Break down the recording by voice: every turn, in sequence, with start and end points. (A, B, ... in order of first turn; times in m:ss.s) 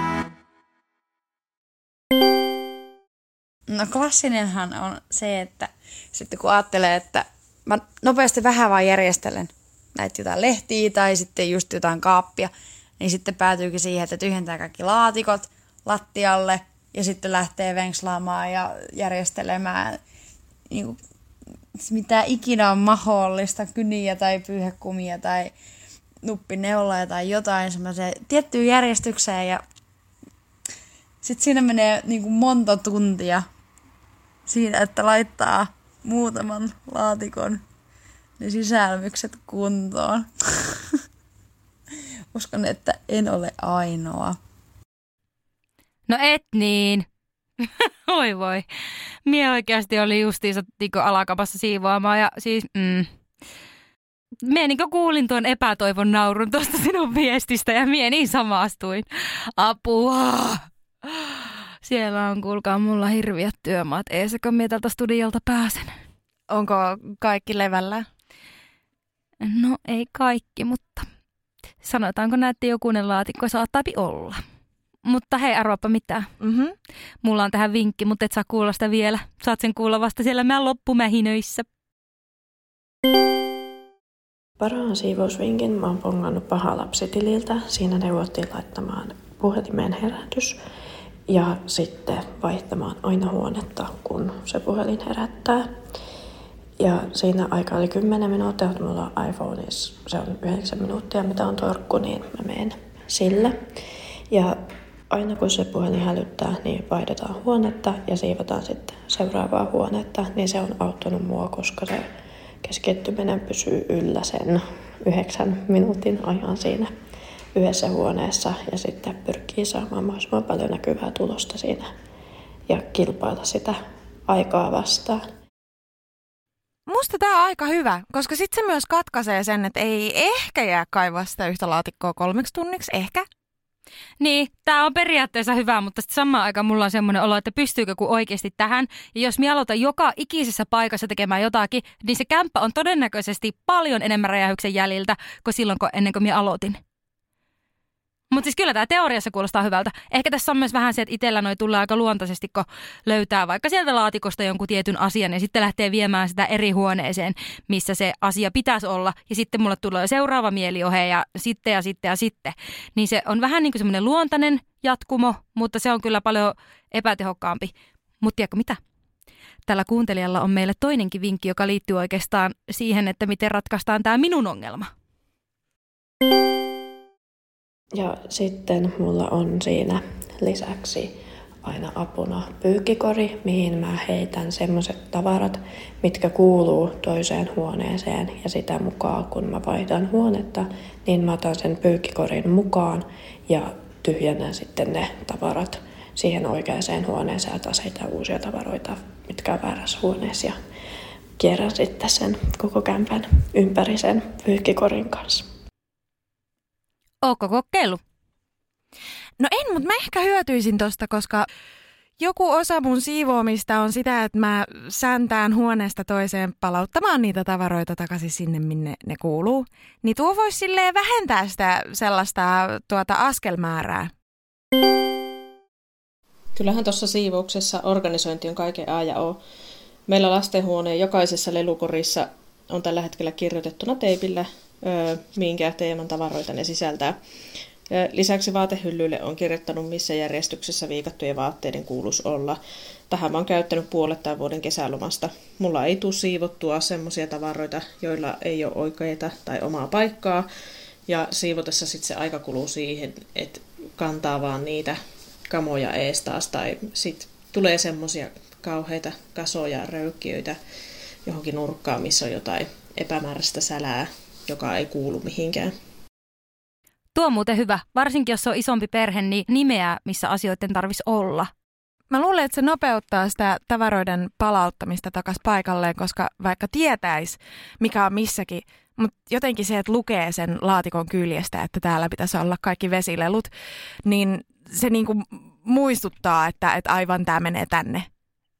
0:03.7-0:20.0 A
0:20.7-0:21.0 A
0:21.8-0:25.5 A
0:26.2-0:29.6 A
0:31.2-0:33.4 A
0:34.4-0:37.6 A
0:38.4-0:40.3 A
0:42.3-0:44.4 A
0:46.1-0:47.0 B
0:47.6-0:48.6 B
0:49.2-0:53.1 B
0:54.4-0:59.0 B
0:59.6-1:06.0 B
1:06.5-1:08.0 C
1:09.4-1:11.1 B
1:11.8-1:14.4 B
1:15.0-1:16.3 B
1:16.4-1:16.7 C
1:17.2-1:21.6 B
1:24.6-1:30.6 D
1:31.3-1:35.7 D
1:36.8-1:43.7 D
1:44.3-1:44.6 D
1:45.1-1:52.1 D
1:52.6-1:56.9 D
1:57.5-2:01.9 D
2:02.7-2:05.2 D
2:06.9-2:13.2 C
2:14.2-2:26.8 B
2:28.3-2:48.8 B
2:49.7-2:54.9 B
2:57.9-3:20.6 D
3:21.4-3:25.5 D
3:27.2-3:28.0 B
3:29.4-3:31.5 C
3:32.2-3:44.1 C
3:46.5-3:49.4 E
3:50.1-3:57.2 E
3:57.9-4:10.5 E
4:11.1-4:20.6 E
4:21.2-4:25.7 E
4:27.1-4:31.5 B
4:32.1-4:43.5 C
4:44.0-4:48.1 C